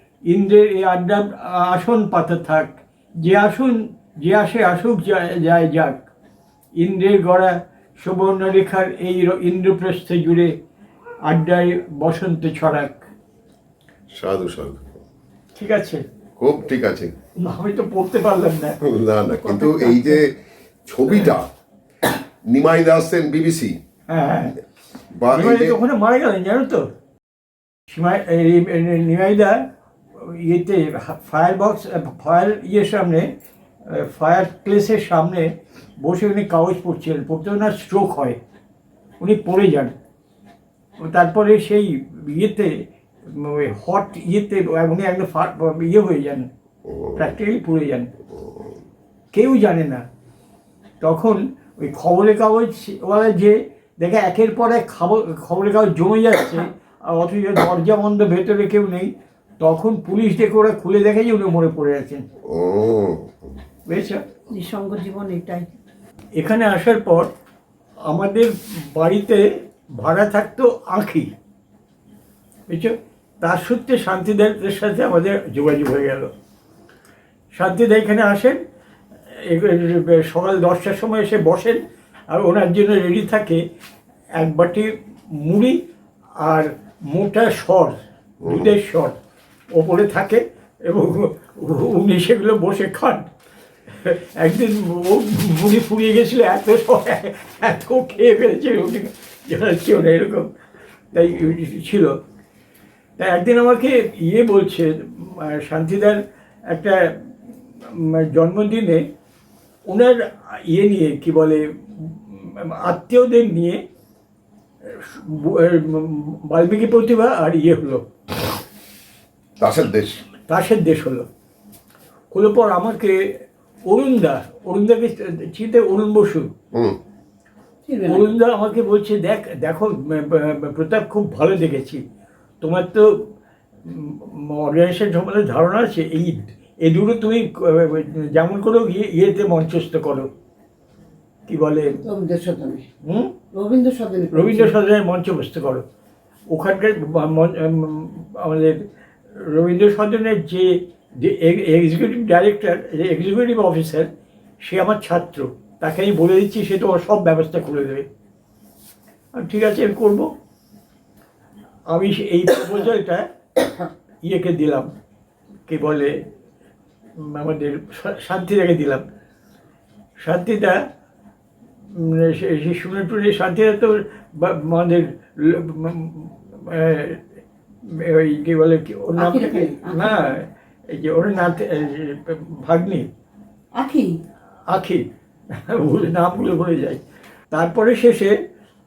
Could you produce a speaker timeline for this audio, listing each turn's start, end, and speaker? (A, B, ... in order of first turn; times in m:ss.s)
0:00.3-0:06.0 A
0:06.8-0:10.5 A
0:11.2-0:13.1 A
0:14.1-0:14.9 B
0:15.6-0:16.0 A
0:16.4-0:17.1 B
0:17.4-0:18.8 A
0:18.8-0:20.3 B
0:19.4-0:20.1 C
0:20.8-0:21.5 B
0:22.4-0:23.8 B
0:24.1-0:24.6 A
0:25.1-0:25.8 B
0:25.3-0:26.8 A
0:27.9-0:33.3 A
0:33.8-0:38.4 A
0:39.2-0:39.9 A
0:41.0-0:46.5 A
0:46.9-0:47.2 B
0:47.2-0:48.1 A
0:49.3-0:50.0 A
0:51.0-1:02.2 A
1:02.4-1:03.5 B
1:03.9-1:04.2 A
1:04.5-1:05.7 C
1:06.4-1:07.3 A
1:08.1-1:09.4 A
1:10.0-1:11.3 A
1:12.7-1:16.3 A
1:17.5-1:18.6 A
1:19.3-1:23.6 A
1:24.4-1:25.8 A
1:26.4-1:29.2 A
1:28.4-1:28.7 B
1:29.7-1:33.3 A
1:33.9-1:40.5 A
1:41.1-1:42.1 A
1:43.2-1:47.2 A
1:47.8-1:49.0 A
1:49.9-1:53.8 A
1:54.9-1:58.0 A
1:59.6-2:00.1 B
2:00.5-2:01.3 A
2:02.3-2:03.2 A
2:03.9-2:06.5 A
2:06.7-2:07.0 B
2:07.8-2:08.3 C
2:08.1-2:12.0 A
2:12.6-2:13.3 A
2:13.8-2:20.3 A
2:21.5-2:22.0 A
2:22.0-2:22.8 C
2:23.0-2:23.3 A
2:23.5-2:24.7 C
2:24.3-2:25.8 A
2:26.5-2:34.1 A
2:34.6-2:38.1 A
2:39.3-2:40.3 A
2:41.9-2:43.2 A
2:44.2-2:44.9 A
2:45.7-2:46.1 A
2:47.2-2:49.0 A
2:50.2-2:50.8 A
2:51.9-2:57.2 A
2:57.8-3:03.1 A
2:59.1-3:00.4 C
3:03.7-3:04.2 C
3:04.7-3:07.0 A
3:07.5-3:08.3 A